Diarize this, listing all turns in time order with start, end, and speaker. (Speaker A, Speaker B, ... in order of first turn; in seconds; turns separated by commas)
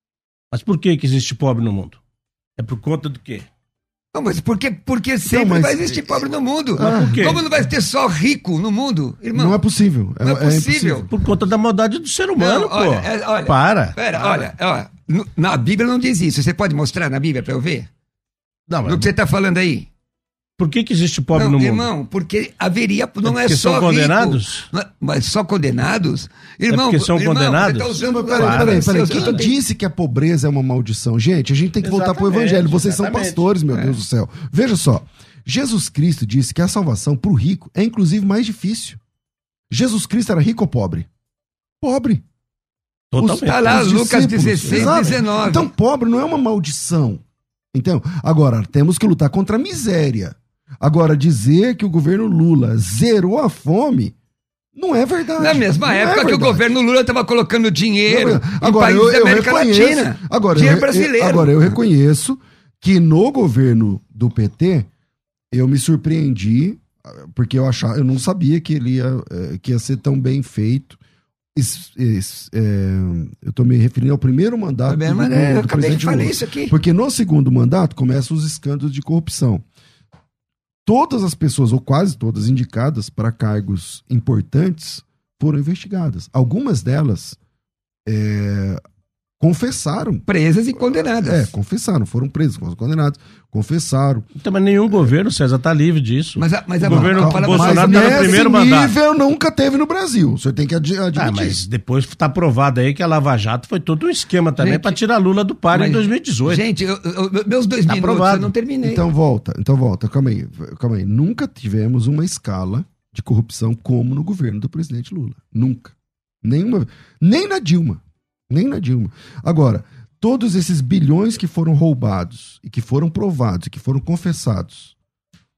Speaker A: 0.5-2.0, Speaker A: 2.6-3.5, Speaker B: 4.1-9.6, Speaker C: 5.2-7.4, Speaker A: 6.8-7.4, Speaker C: 9.3-11.1, Speaker B: 10.2-11.1, Speaker A: 11.1-13.9, Speaker B: 12.4-17.9, Speaker A: 18.7-19.1, Speaker B: 18.8-19.9, Speaker A: 20.6-21.9, Speaker B: 21.3-29.5, Speaker A: 23.2-24.7, Speaker A: 26.7-29.4, Speaker C: 28.0-39.0, Speaker A: 31.8-33.5, Speaker C: 39.7-41.1, Speaker C: 41.8-42.2, Speaker A: 43.1-43.9, Speaker C: 43.2-47.2, Speaker B: 43.4-45.7, Speaker A: 44.7-45.1, Speaker C: 47.7-54.1, Speaker C: 54.7-56.6, Speaker B: 55.4-61.7, Speaker C: 58.1-64.9, Speaker C: 65.5-71.0, Speaker C: 71.5-79.6, Speaker B: 74.9-76.7, Speaker C: 80.8-87.4, Speaker C: 88.0-88.8, Speaker C: 89.4-90.2, Speaker B: 90.3-91.5, Speaker C: 90.9-94.3, Speaker A: 94.4-98.9, Speaker B: 96.4-98.5, Speaker C: 96.8-101.6, Speaker A: 101.2-106.6, Speaker B: 104.6-105.0, Speaker B: 105.7-109.0, Speaker A: 107.9-108.5, Speaker C: 108.8-125.0